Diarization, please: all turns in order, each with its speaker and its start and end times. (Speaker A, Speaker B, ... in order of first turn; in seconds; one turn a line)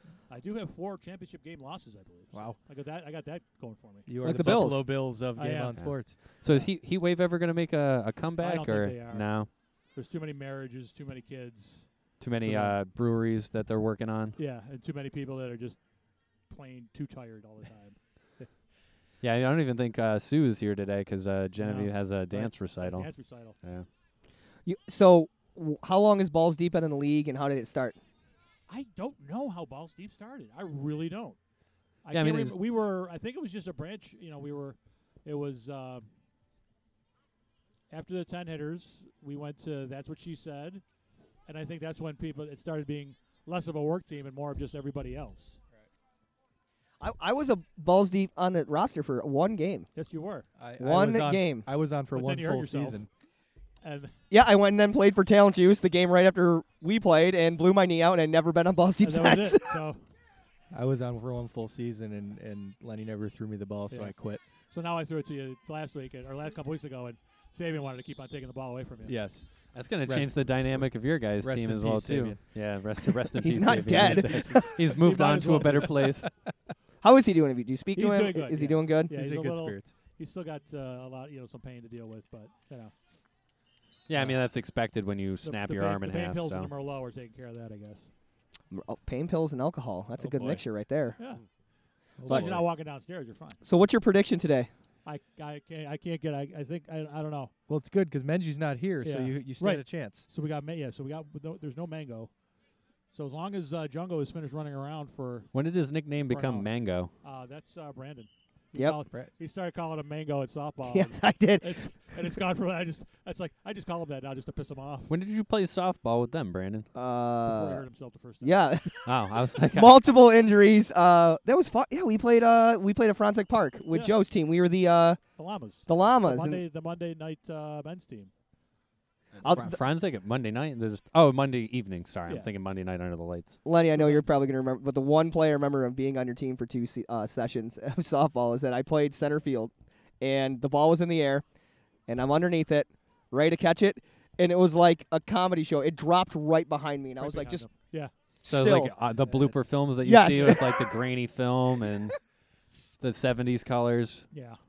Speaker A: 0.3-4.5
Speaker B: 2.3-2.6
Speaker B: 4.0-6.2
Speaker C: 4.2-4.8
Speaker A: 5.3-6.0
Speaker D: 5.7-9.5
Speaker A: 8.4-11.9
Speaker D: 12.2-14.4
Speaker A: 12.4-12.7
Speaker A: 14.3-15.8
Speaker A: 16.5-18.5
Speaker D: 19.2-23.9
Speaker A: 21.6-23.6
Speaker C: 24.6-28.0
Speaker A: 28.7-31.4
Speaker A: 32.0-36.1
Speaker D: 32.1-32.6
Speaker A: 37.9-40.8
Speaker A: 41.5-45.6
Speaker C: 47.0-49.9
Speaker A: 49.9-50.5
Speaker B: 50.5-53.1
Speaker C: 50.8-51.7
Speaker A: 52.1-53.0
Speaker A: 53.8-54.1
Speaker C: 54.3-59.8
Speaker A: 59.0-60.0
Speaker B: 60.7-64.4
Speaker A: 63.9-64.2
Speaker A: 64.7-69.3
Speaker B: 69.0-72.4
Speaker D: 69.7-76.3
Speaker C: 73.4-74.8
Speaker B: 73.9-74.7
Speaker A: 74.9-76.1
Speaker B: 75.5-76.3
Speaker C: 77.0-79.1
Speaker A: 77.9-82.9
Speaker B: 79.0-79.9
Speaker D: 84.1-86.7
Speaker A: 85.4-88.1
Speaker C: 88.7-91.2
Speaker B: 90.2-90.7
Speaker A: 91.2-91.4
Speaker B: 92.2-92.7
Speaker A: 92.2-93.6
Speaker C: 92.3-92.5
Speaker C: 93.6-94.7
Speaker A: 95.0-97.5
Speaker B: 97.7-100.3
Speaker A: 99.0-102.3
Speaker A: 103.1-105.5
Speaker D: 105.5-107.1
Speaker A: 106.2-115.1
Speaker C: 110.9-112.2
Speaker D: 115.1-116.9
Speaker C: 116.9-117.8
Speaker A: 117.4-119.0
Speaker C: 118.4-119.1
Speaker D: 119.0-120.0
Speaker C: 119.7-125.2
Speaker A: 123.9-124.2
Speaker A: 125.4-128.3
Speaker C: 125.8-126.6
Speaker D: 129.4-133.6
Speaker C: 129.4-129.8
Speaker C: 133.6-141.4
Speaker A: 133.9-134.2
Speaker C: 142.1-147.7
Speaker A: 147.2-148.1
Speaker C: 148.4-148.9
Speaker D: 148.4-152.1
Speaker B: 149.3-149.6
Speaker C: 150.0-150.9
Speaker D: 153.0-154.2
Speaker A: 154.3-154.6